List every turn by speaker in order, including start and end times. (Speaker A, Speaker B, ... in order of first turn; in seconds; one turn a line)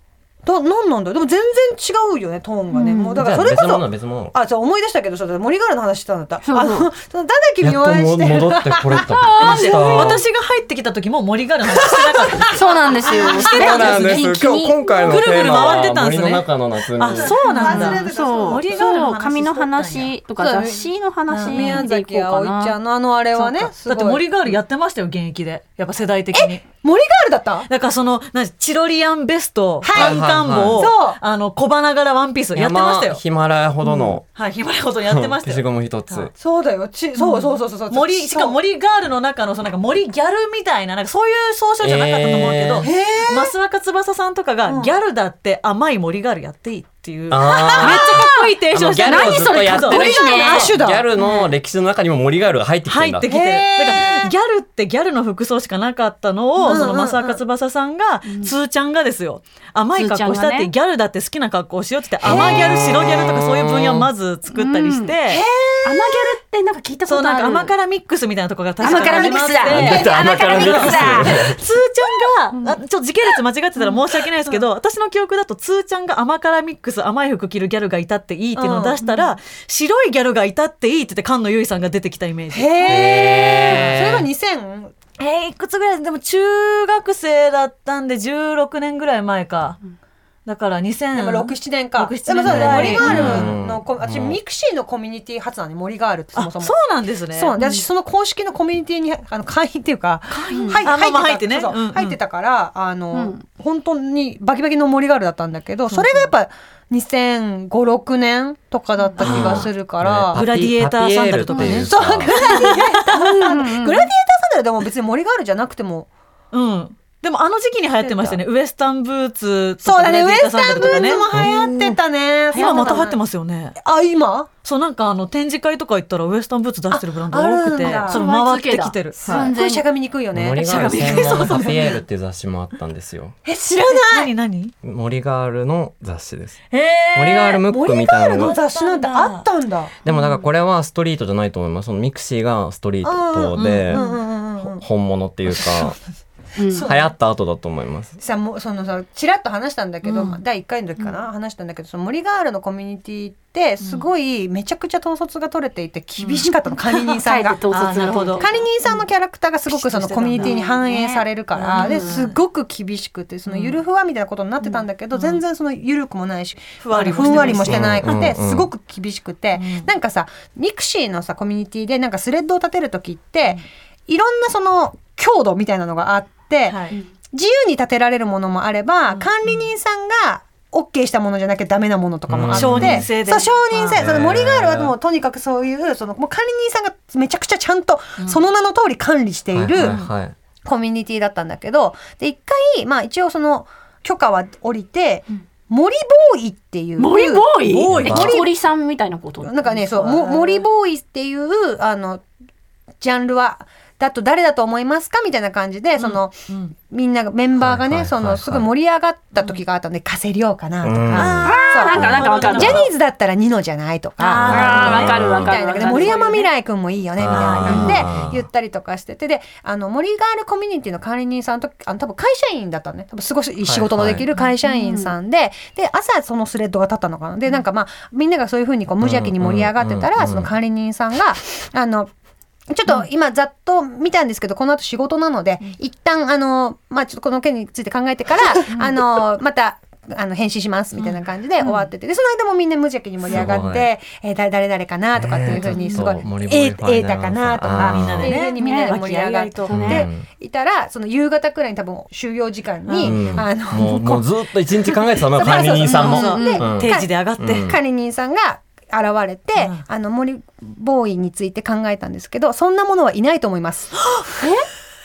Speaker A: 0.4-9.1
Speaker B: 2.7-3.2
Speaker C: 3.2-4.3
Speaker B: 6.4-6.9
Speaker C: 7.6-10.2
Speaker B: 9.1-10.1
Speaker D: 9.4-12.7
Speaker A: 11.8-12.5
Speaker B: 12.5-15.1
Speaker A: 13.1-13.7
Speaker D: 13.2-14.3
Speaker C: 13.4-17.4
Speaker D: 15.0-20.1
Speaker A: 17.1-19.0
Speaker B: 17.4-22.8
Speaker A: 20.4-24.2
Speaker D: 21.3-21.8
Speaker B: 23.4-23.6
Speaker D: 23.9-26.6
Speaker A: 26.3-27.7
Speaker D: 27.7-33.2
Speaker A: 29.8-31.2
Speaker C: 29.9-30.9
Speaker C: 32.5-34.2
Speaker D: 33.9-36.3
Speaker C: 35.1-36.3
Speaker A: 36.4-38.6
Speaker D: 37.3-51.5
Speaker C: 41.8-42.9
Speaker A: 42.8-43.5
Speaker A: 44.6-44.9
Speaker C: 47.3-53.3
Speaker A: 47.5-48.0
Speaker B: 47.8-50.7
Speaker A: 49.9-51.1
Speaker D: 52.9-65.4
Speaker A: 53.2-54.3
Speaker A: 56.6-57.4
Speaker B: 58.2-58.5
Speaker B: 60.0-60.7
Speaker C: 62.2-64.1
Speaker A: 62.2-62.8
Speaker B: 64.5-65.2
Speaker A: 65.2-66.4
Speaker B: 65.8-67.7
Speaker D: 67.1-84.0
Speaker B: 68.8-71.4
Speaker A: 68.8-72.2
Speaker C: 69.7-71.6
Speaker A: 78.5-79.0
Speaker A: 82.5-84.9
Speaker C: 82.8-84.3
Speaker D: 85.2-89.8
Speaker D: 90.5-93.5
Speaker A: 91.1-96.8
Speaker C: 92.4-94.4
Speaker B: 93.0-93.3
Speaker D: 96.3-97.5
Speaker A: 97.3-110.4
Speaker B: 97.6-97.8
Speaker D: 100.3-102.2
Speaker B: 100.5-100.8
Speaker B: 103.1-103.4
Speaker D: 109.2-109.7
Speaker C: 109.2-112.4
Speaker D: 110.3-113.4
Speaker A: 111.5-116.1
Speaker B: 113.1-114.1
Speaker D: 116.5-121.2
Speaker A: 119.8-123.2
Speaker C: 121.3-121.6
Speaker B: 122.5-123.1
Speaker D: 122.5-123.8
Speaker A: 123.8-124.5
Speaker D: 124.6-129.5
Speaker A: 126.9-128.2
Speaker B: 128.0-129.8
Speaker A: 129.2-131.7
Speaker C: 130.3-133.3
Speaker D: 130.6-132.0
Speaker A: 133.4-134.3
Speaker D: 133.9-134.7
Speaker C: 134.8-136.6
Speaker D: 136.7-137.6
Speaker C: 137.1-138.6
Speaker A: 137.7-139.9
Speaker D: 138.3-139.4
Speaker B: 140.0-140.4
Speaker C: 140.0-144.0
Speaker A: 143.0-144.8
Speaker D: 143.6-144.1
Speaker C: 144.6-146.0
Speaker B: 146.6-146.9
Speaker A: 146.7-147.1
Speaker C: 146.8-148.2
Speaker A: 148.2-190.0
Speaker D: 156.2-156.5
Speaker B: 157.2-158.6
Speaker D: 157.7-159.0
Speaker D: 159.7-160.6
Speaker B: 160.3-162.1
Speaker D: 161.5-162.4
Speaker D: 163.5-163.8
Speaker D: 164.6-165.4
Speaker D: 166.8-168.1
Speaker C: 167.6-168.7
Speaker D: 169.5-169.9
Speaker D: 176.7-177.0
Speaker D: 179.1-179.7
Speaker C: 182.3-183.1
Speaker D: 182.5-184.0
Speaker C: 183.9-184.9
Speaker C: 189.5-190.3
Speaker D: 189.8-190.1
Speaker A: 190.6-198.5
Speaker B: 197.0-199.8
Speaker D: 197.7-198.1
Speaker C: 197.9-198.4
Speaker A: 199.4-202.2
Speaker D: 199.8-200.6
Speaker A: 203.0-206.3
Speaker D: 206.0-206.7
Speaker A: 206.9-232.1
Speaker C: 207.6-208.7
Speaker C: 210.8-211.6
Speaker D: 211.1-212.9
Speaker B: 211.4-212.8
Speaker D: 214.2-216.3
Speaker C: 214.4-215.7
Speaker B: 214.4-216.5
Speaker C: 217.2-218.4
Speaker D: 217.3-218.1
Speaker B: 217.7-218.0
Speaker C: 223.6-224.2
Speaker B: 224.6-225.1
Speaker C: 229.0-230.5
Speaker A: 232.7-254.2
Speaker C: 243.3-243.9
Speaker C: 245.1-248.4
Speaker B: 245.5-246.1
Speaker D: 247.7-249.9
Speaker B: 248.5-249.0
Speaker B: 249.6-250.1
Speaker C: 249.7-250.2
Speaker D: 252.8-253.4
Speaker C: 253.0-257.8
Speaker A: 255.3-264.1
Speaker B: 255.8-256.7
Speaker D: 255.8-257.7
Speaker D: 259.6-259.8
Speaker B: 264.4-264.6